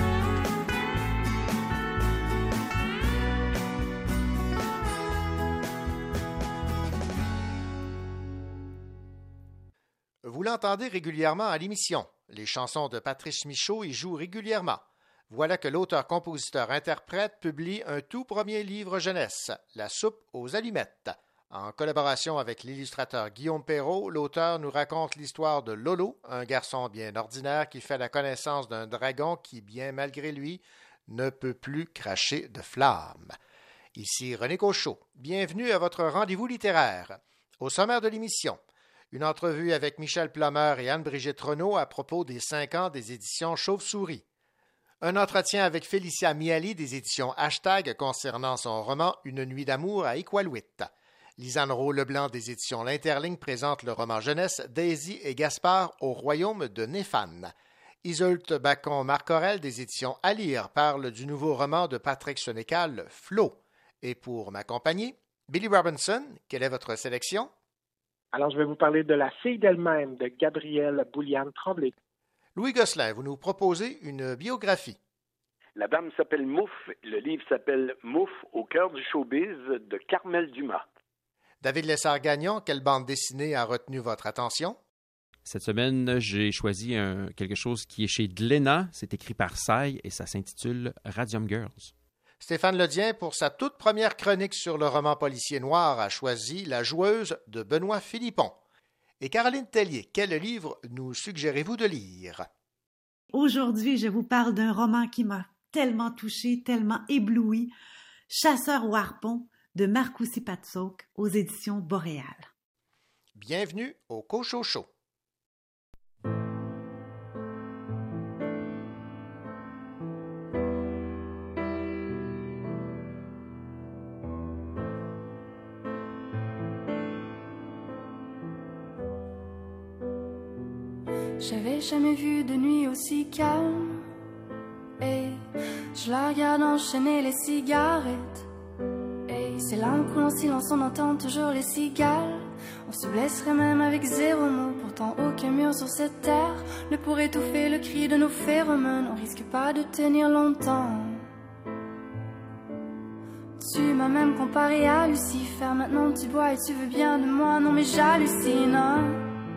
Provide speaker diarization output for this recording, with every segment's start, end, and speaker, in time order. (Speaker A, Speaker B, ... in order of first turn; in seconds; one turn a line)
Speaker A: 10.2-33.3
Speaker A: 33.9-38.6
Speaker A: 39.1-44.2
Speaker A: 45.0-57.5
Speaker A: 58.0-67.5
Speaker B: 68.3-71.9
Speaker A: 72.5-75.0
Speaker C: 75.8-80.9
Speaker A: 81.6-84.8
Speaker D: 85.5-91.9
Speaker A: 92.4-98.6
Speaker A: 99.2-102.5
Speaker E: 103.3-107.7
Speaker E: 108.3-112.5
Speaker A: 113.3-114.9
Speaker F: 131.4-134.0
Speaker F: 135.0-138.5
Speaker F: 139.3-151.2
Speaker F: 153.6-159.2